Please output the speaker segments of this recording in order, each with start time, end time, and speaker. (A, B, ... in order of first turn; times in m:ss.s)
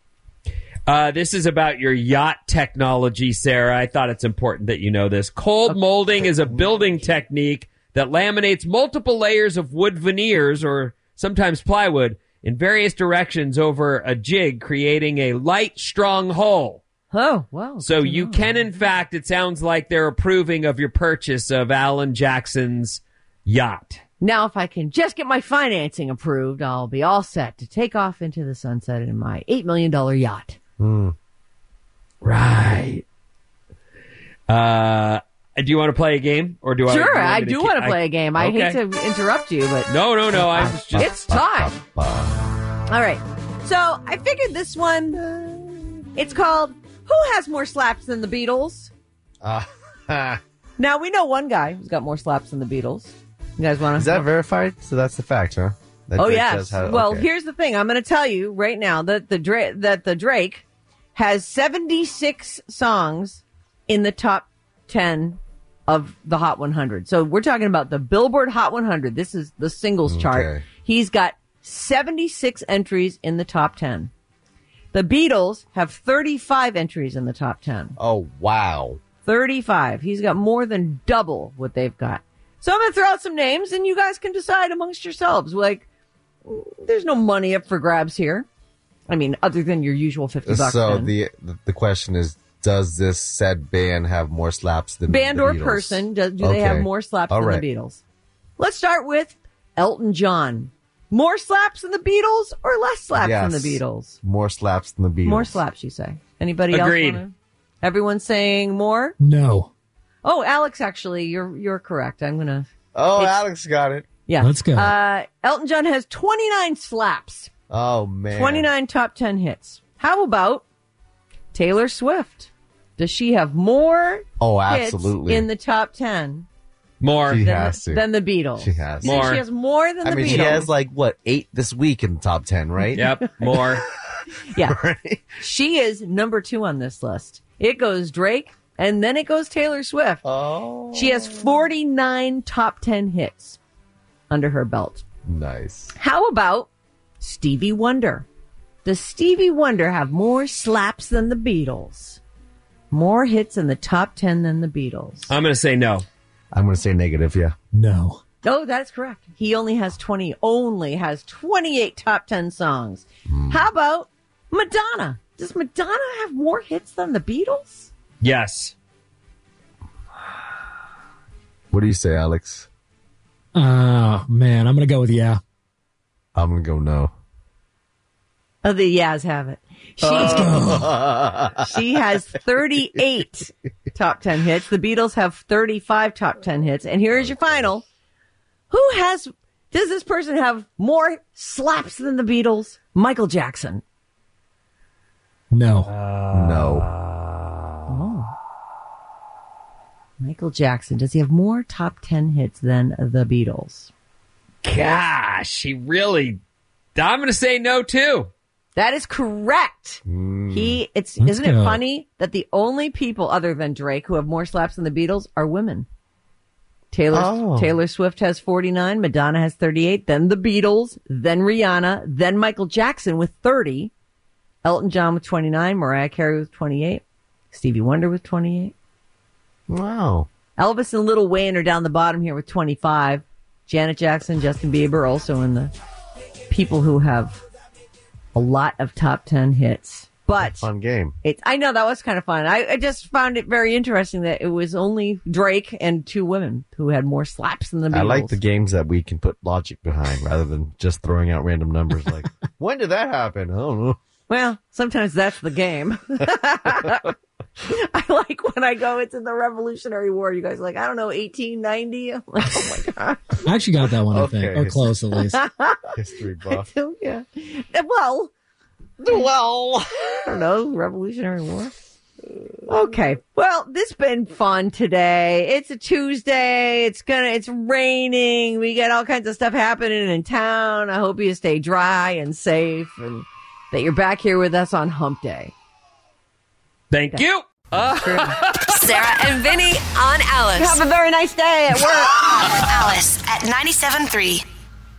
0:00.9-0:16.8 A
0:17.1-0:18.7 B
0:17.8-0:24.0 A
0:24.2-0:30.6 B
0:30.8-0:31.2 C
0:32.2-0:33.0 A
0:34.5-0:38.8 A
0:36.9-0:41.8 B
0:39.9-0:41.1 A
0:40.9-0:42.4 C
0:42.9-0:48.9 B
0:49.4-0:50.4 C
0:50.8-0:54.3 B
0:54.0-0:57.3 C
0:56.2-1:14.1 B
1:10.1-1:10.7 C
1:14.9-1:18.0 B
1:18.0-1:19.0 C
1:19.2-1:25.9 B
1:26.4-1:28.5 B
1:29.1-1:31.1 B
1:30.5-1:37.7 C
1:35.1-1:38.0 B
1:38.6-1:44.2 B
1:43.2-1:45.6 C
1:45.2-1:49.2 B
1:46.7-1:47.2 A
1:49.2-1:49.7 D
1:50.2-1:53.4 B
1:52.9-1:54.1 C
1:54.3-1:57.5 B
1:54.4-1:54.9 D
1:57.7-1:58.7 C
1:58.3-2:00.7 B
2:01.5-2:06.5 B
2:04.4-2:05.5 C
2:07.0-2:07.5 A
2:07.3-2:08.0 C
2:07.4-2:10.7 B
2:08.6-2:09.2 C
2:09.0-2:09.4 A
2:10.0-2:13.7 C
2:13.0-2:13.8 A
2:13.0-2:13.6 B
2:14.6-2:15.4 C
2:15.4-2:20.2 B
2:20.2-2:21.6 C
2:20.9-2:23.6 B
2:24.3-2:25.0 B
2:25.3-2:26.0 C
2:26.0-2:26.7 B
2:27.2-2:28.3 B
2:28.8-2:32.2 B
2:32.9-2:35.3 B
2:35.3-2:36.1 A
2:36.5-2:37.6 C
2:37.7-2:38.2 D
2:38.4-2:47.9 B
2:43.3-2:43.6 C
2:48.2-2:48.8 A
2:51.7-2:52.7 C
2:53.6-2:55.4 D
2:56.4-2:57.1 C
2:58.6-3:00.9 B
3:00.0-3:02.0 C
3:00.3-3:00.9 D
3:01.6-3:07.8 B
3:07.2-3:07.8 C
3:08.7-3:13.8 B
3:15.5-3:15.9 D
3:15.9-3:17.7 A
3:16.3-3:16.9 C
3:17.9-3:18.3 B
3:20.2-3:23.9 B
3:24.6-3:26.4 A
3:27.0-3:28.3 A
3:28.8-3:35.9 B
3:30.1-3:30.8 C
3:31.2-3:31.8 D
3:36.9-3:43.9 B
3:37.1-3:37.8 C
3:44.6-3:48.7 B
3:49.7-3:50.3 C
3:50.6-3:55.7 B
3:56.5-3:57.4 B
3:58.3-4:00.7 B
4:00.4-4:01.2 C
4:01.2-4:08.4 B
4:07.9-4:14.0 C
4:14.3-4:23.4 B
4:23.4-4:25.4 D
4:24.1-4:25.0 C
4:25.2-4:26.0 B
4:26.0-4:26.7 C
4:26.5-4:28.3 B
4:29.0-4:30.4 C
4:30.1-4:31.7 B
4:32.7-4:45.5 B
4:46.9-4:48.9 A
4:47.8-4:48.8 B
4:48.8-4:50.8 E
4:50.6-4:52.3 B
4:52.2-4:54.4 E